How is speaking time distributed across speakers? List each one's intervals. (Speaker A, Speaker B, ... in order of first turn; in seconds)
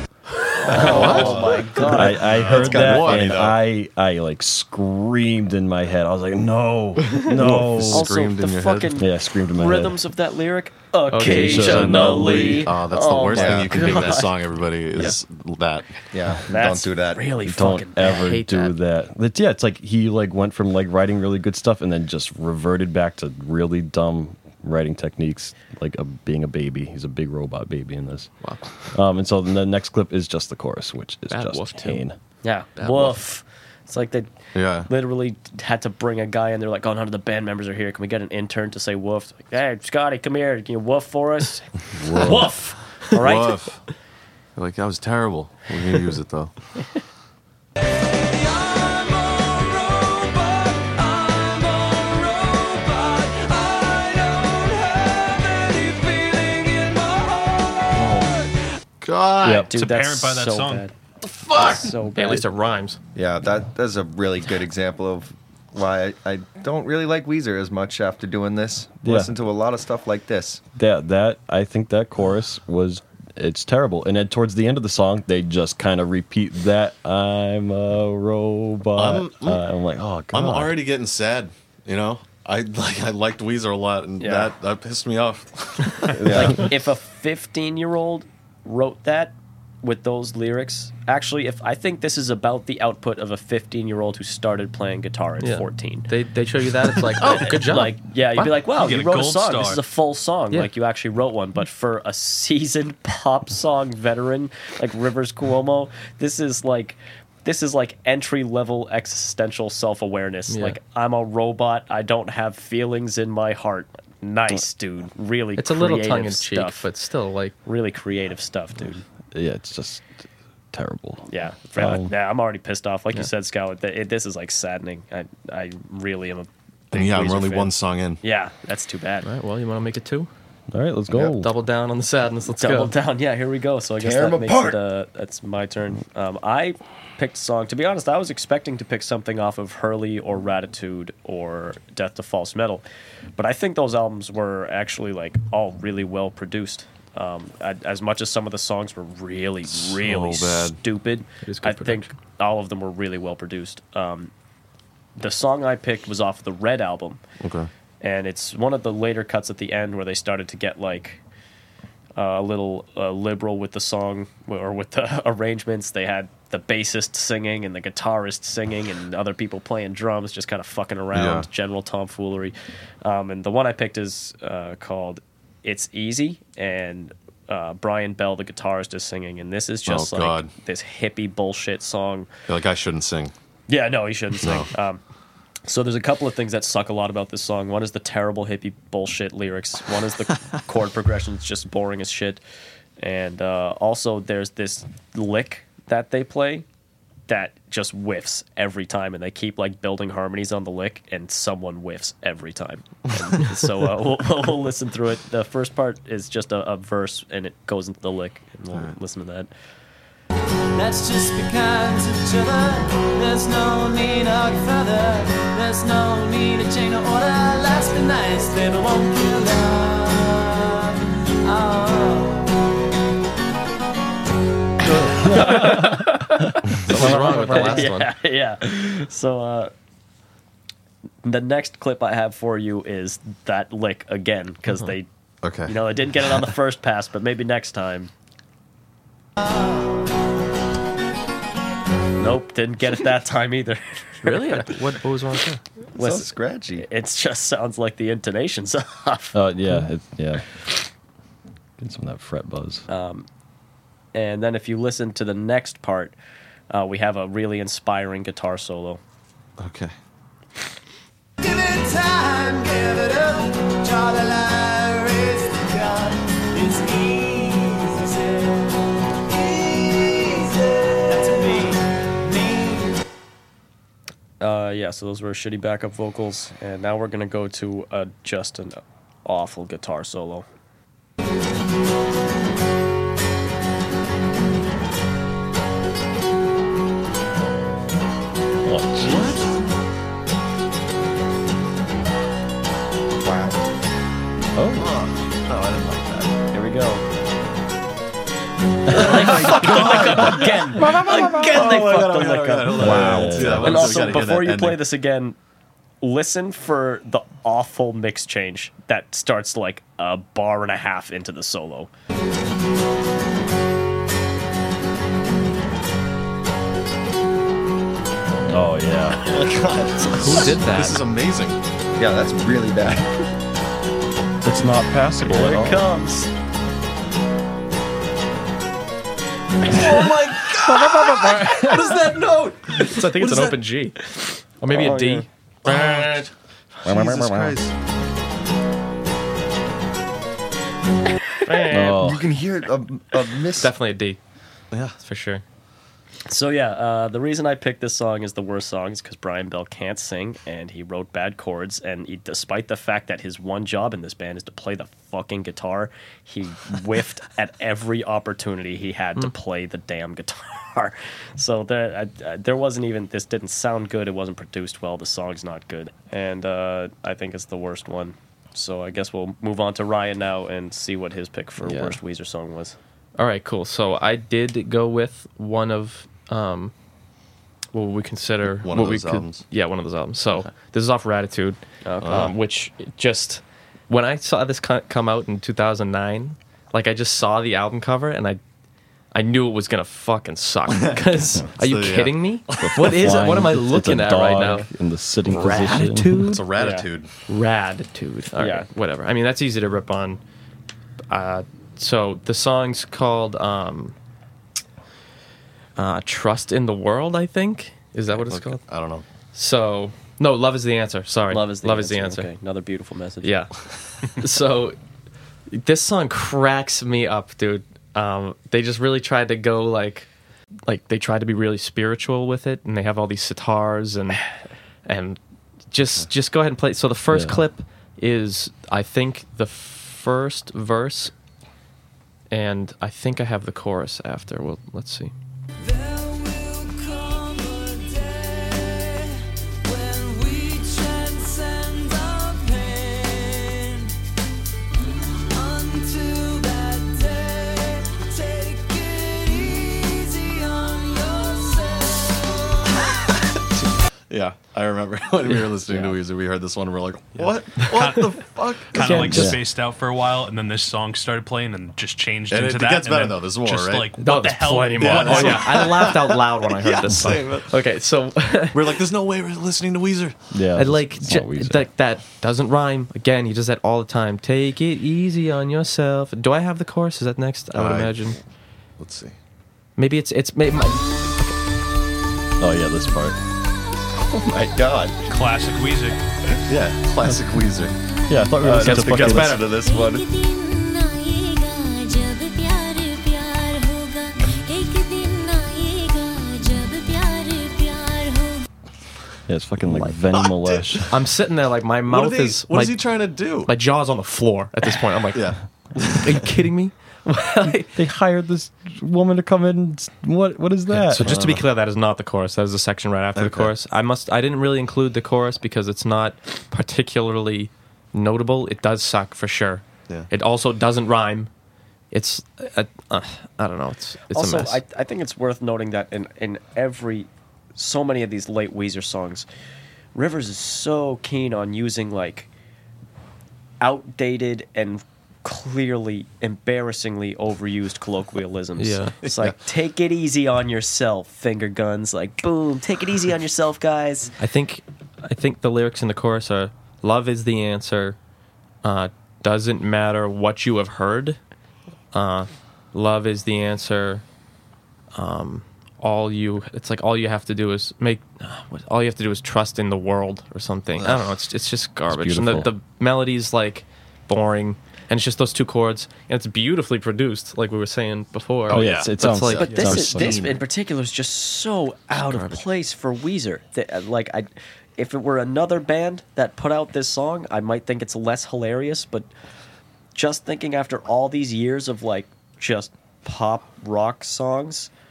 Speaker A: 0.7-3.3, 13.3-14.0, 16.1-17.2, 63.1-70.6, 86.2-86.6, 134.0-134.8, 246.0-246.9, 293.2-293.5, 322.0-323.3, 341.8-343.8, 484.0-485.0, 488.4-490.0
Speaker B: 0.7-2.2, 7.9-14.4, 16.5-18.2, 32.4-43.7, 59.6-60.9, 61.5-62.5, 84.2-84.5, 86.3-96.1, 97.2-116.8, 117.7-119.0, 121.3-129.3, 132.6-142.8, 143.4-154.3, 155.2-157.2, 158.0-161.2, 162.2-182.3, 183.7-185.0, 185.6-192.4, 193.0-196.7, 197.3-209.5, 225.4-225.8, 227.0-229.7, 231.2-235.1, 235.7-238.1, 242.2-244.7, 246.0-249.4, 252.9-253.3, 254.1-256.1, 256.7-259.0, 274.4-280.4, 296.5-297.0, 298.9-305.4, 306.0-311.9, 325.2-326.3, 334.7-335.3, 346.3-372.8, 381.8-382.3, 396.6-396.9, 398.4-398.7, 411.3-413.3, 524.1-529.2, 529.9-532.3, 533.6-544.1, 569.4-579.1, 579.9-584.7
Speaker C: 0.8-1.6, 2.2-3.5, 7.3-9.0, 11.4-15.9, 34.5-34.9, 43.1-43.8, 44.5-46.5, 59.0-59.7, 61.3-61.9, 79.0-79.6, 80.3-86.2, 126.9-128.2, 149.7-150.8, 157.4-157.7, 171.1-171.5, 179.8-180.5, 182.5-183.3, 184.4-184.7, 235.4-235.8, 259.6-259.9, 289.0-289.4, 294.8-296.4, 299.4-304.8, 319.2-321.6, 329.6-333.7, 335.6-336.2, 336.8-337.7, 378.6-379.4, 382.0-382.3, 390.7-391.0, 391.5-392.9, 396.2-397.1, 408.2-409.1, 454.1-459.3, 462.3-463.9, 464.8-467.5, 468.5-470.3, 477.5-478.1, 478.8-479.2, 486.5-487.8, 500.1-500.9, 501.8-503.5, 505.1-506.3, 511.0-511.4, 513.2-513.5, 560.8-561.1, 568.5-570.3
Speaker D: 0.8-1.4, 11.1-12.5, 18.1-18.7, 28.4-28.6, 31.3-32.0, 32.8-33.2, 62.1-63.0, 95.4-98.5, 110.5-110.8, 115.5-117.5, 129.2-130.3, 131.3-132.9, 151.4-152.1, 225.2-228.2, 244.2-245.6, 320.1-321.0, 330.6-332.1, 332.7-334.0, 334.6-336.3, 341.4-342.0, 343.6-344.2, 345.0-345.4, 371.6-372.0, 373.2-376.7, 377.7-388.4, 389.1-394.7, 395.2-396.4, 397.3-400.2, 401.1-403.9, 405.8-408.6, 409.3-412.3, 413.2-414.8, 415.5-420.1, 420.7-424.3, 424.9-425.2, 425.7-431.1, 432.3-435.1, 455.6-455.9, 458.8-459.4, 463.9-468.8, 470.5-478.2, 479.8-481.4, 489.0-489.4, 499.6-499.9, 500.9-507.8, 510.8-521.3, 521.9-524.6, 538.6-539.0, 544.2-548.0, 548.6-551.2, 551.9-554.0, 554.9-570.1, 572.0-572.4
Speaker E: 1.8-8.1, 9.0-10.0, 11.2-12.7, 17.4-28.3, 28.9-32.1, 42.0-42.5, 59.4-59.7, 69.0-69.3, 70.8-80.7, 86.2-86.6, 119.3-120.1, 120.7-122.1, 130.7-131.5, 225.2-226.2, 226.9-227.9, 249.3-250.5, 251.8-252.8, 288.6-289.4, 294.6-294.9, 299.1-299.5, 302.8-304.1, 318.5-319.2, 324.4-325.9, 336.8-337.6, 341.7-342.3, 392.6-396.3, 427.1-427.4, 459.1-459.4, 470.3-471.7, 482.4-483.2, 488.1-489.5, 499.3-500.9, 507.7-511.4, 561.9-562.5, 568.5-570.4
Speaker F: 47.8-58.5, 210.7-222.5, 261.4-268.7, 269.3-273.0, 435.6-443.9, 445.3-452.9
Speaker G: 59.7-60.8, 98.7-99.8, 457.6-465.8, 485.1-486.0
Speaker H: 489.6-498.4